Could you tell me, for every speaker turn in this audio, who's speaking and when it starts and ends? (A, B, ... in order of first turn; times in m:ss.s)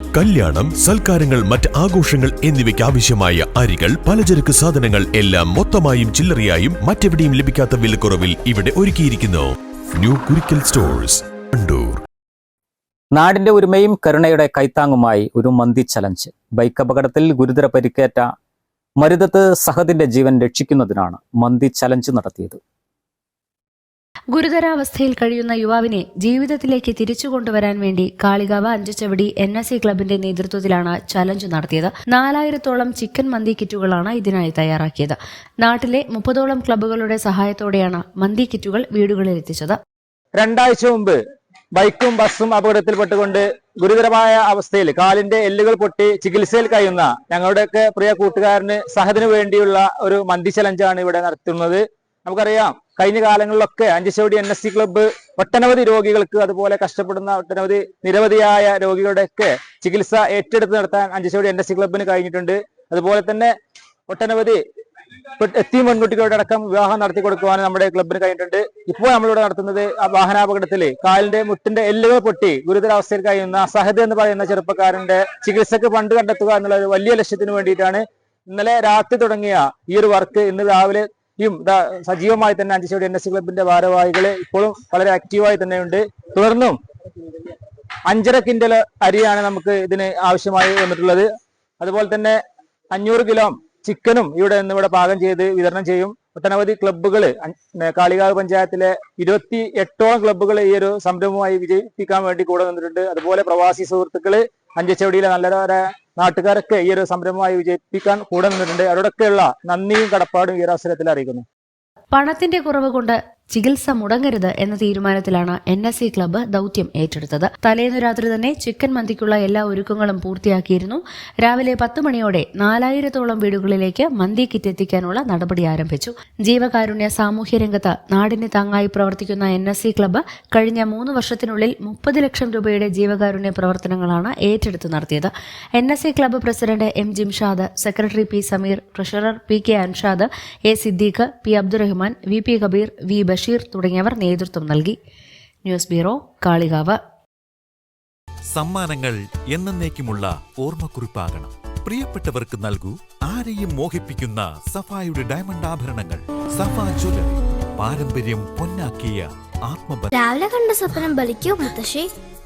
0:00.1-0:12.0 A
0:13.1-0:18.3 B
0:19.0-0:22.6 B
0:24.3-0:39.8 C
0:40.4-0:41.2 D
0:41.7-1:03.5 D
1:04.1-1:04.6 D
1:05.4-1:26.8 D
1:28.1-1:31.3 D
1:31.8-1:32.4 D
1:32.9-1:51.4 D
1:52.1-2:25.0 C
2:25.6-2:27.0 C
2:28.5-2:40.2 E
2:40.1-2:42.1 F